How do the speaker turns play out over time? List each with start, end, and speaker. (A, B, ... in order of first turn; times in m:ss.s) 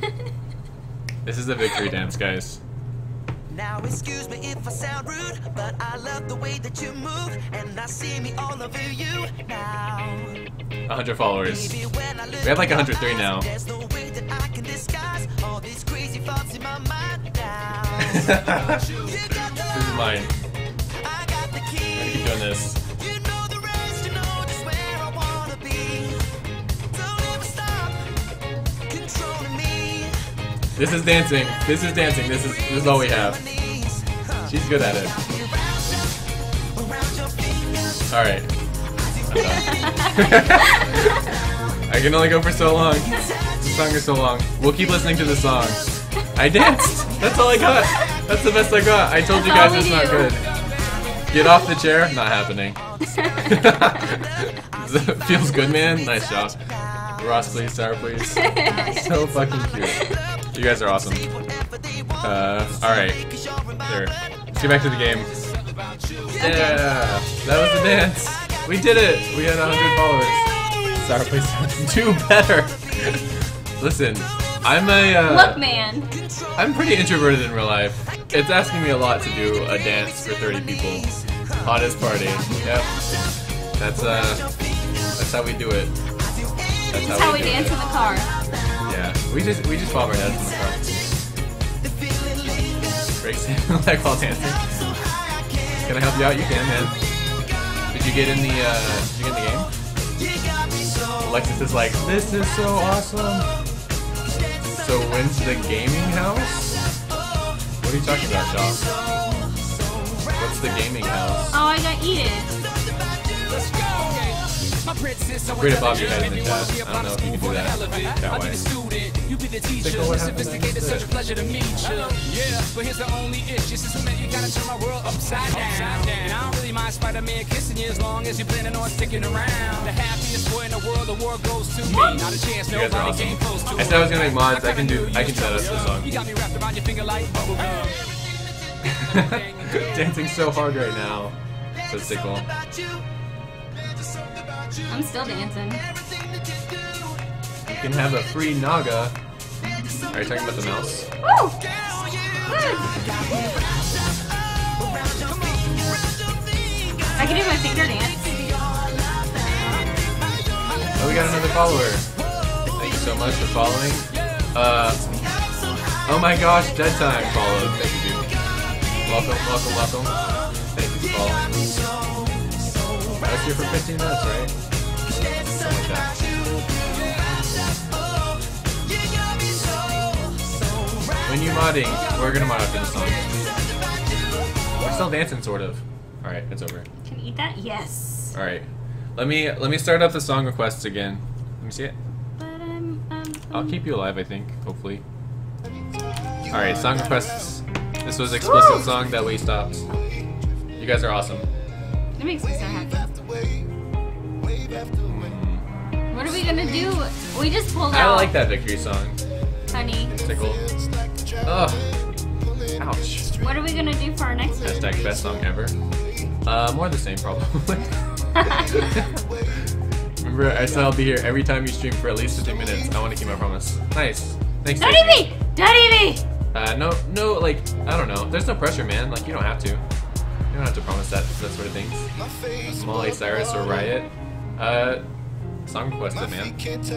0:01.2-0:02.6 A
0:04.0-0:04.3 B
0:07.4-0:09.1 B
0:10.9-0:13.5 A
0:14.6-0:17.4 B
0:18.0-0:18.9 A
0:19.5-0:20.3 A
0:21.9-0:22.8 A
0:23.6-0:26.0 B
0:27.4-0:27.9 B
0:29.4-0:30.0 B
0:30.8-0:33.4 A
0:34.4-0:35.2 A
0:38.1-0:38.5 A
0:39.3-0:41.2 A
0:41.9-0:50.5 A
0:49.3-0:50.4 C
0:51.3-0:52.8 A
0:53.3-0:56.6 A
0:57.2-1:01.3 A
0:58.4-0:59.1 C
1:02.2-1:03.3 A
1:03.8-1:05.3 A
1:06.4-1:13.3 A
1:06.4-1:06.9 C
1:13.8-1:15.7 A
1:15.2-1:16.1 C
1:16.6-1:22.9 A
1:23.8-1:24.5 A
1:25.2-1:25.9 A
1:26.9-1:27.8 A
1:27.1-1:28.3 C
1:28.9-1:31.0 A
1:33.2-1:34.7 A
1:35.8-1:37.0 A
1:37.9-1:39.7 A
1:41.2-1:43.5 A
1:44.7-1:46.8 A
1:47.8-1:48.9 A
1:50.4-1:51.6 A
1:51.5-1:52.5 C
1:53.6-1:54.4 D
1:55.0-2:18.0 D
1:55.6-1:58.6 A
1:59.8-2:01.1 A
2:12.7-2:16.1 A
2:18.8-2:22.5 A
2:19.2-2:19.8 D
2:24.9-2:25.8 C
2:27.7-2:29.1 A
2:30.1-2:31.1 A
2:31.2-2:31.6 C
2:37.2-2:38.8 C
2:37.2-2:37.8 B
2:41.0-2:42.1 A
2:42.8-2:45.0 A
2:46.1-2:48.3 A
2:49.0-2:50.1 A
2:50.7-2:51.5 A
2:53.2-2:54.5 A
2:55.5-2:56.2 A
3:01.2-3:03.2 A
3:04.8-3:06.9 A
3:07.0-3:08.4 C
3:08.3-3:12.0 A
3:12.4-3:13.8 C
3:13.5-3:15.0 A
3:16.5-3:19.9 A
3:18.5-3:18.8 C
3:20.8-3:21.5 A
3:22.2-3:23.1 C
3:25.0-3:25.6 A
3:26.1-3:28.4 C
3:27.9-3:29.2 A
3:29.7-3:30.2 C
3:30.2-3:30.7 A
3:31.4-3:31.9 A
3:32.8-3:33.3 A
3:33.4-3:34.7 C
3:34.6-3:35.8 A
3:36.4-3:37.9 A
3:38.5-3:39.0 A
3:40.2-3:45.3 A
3:44.8-3:46.2 C
3:46.5-3:49.8 A
3:50.5-3:52.1 A
3:52.7-3:55.0 A
3:55.7-3:56.6 A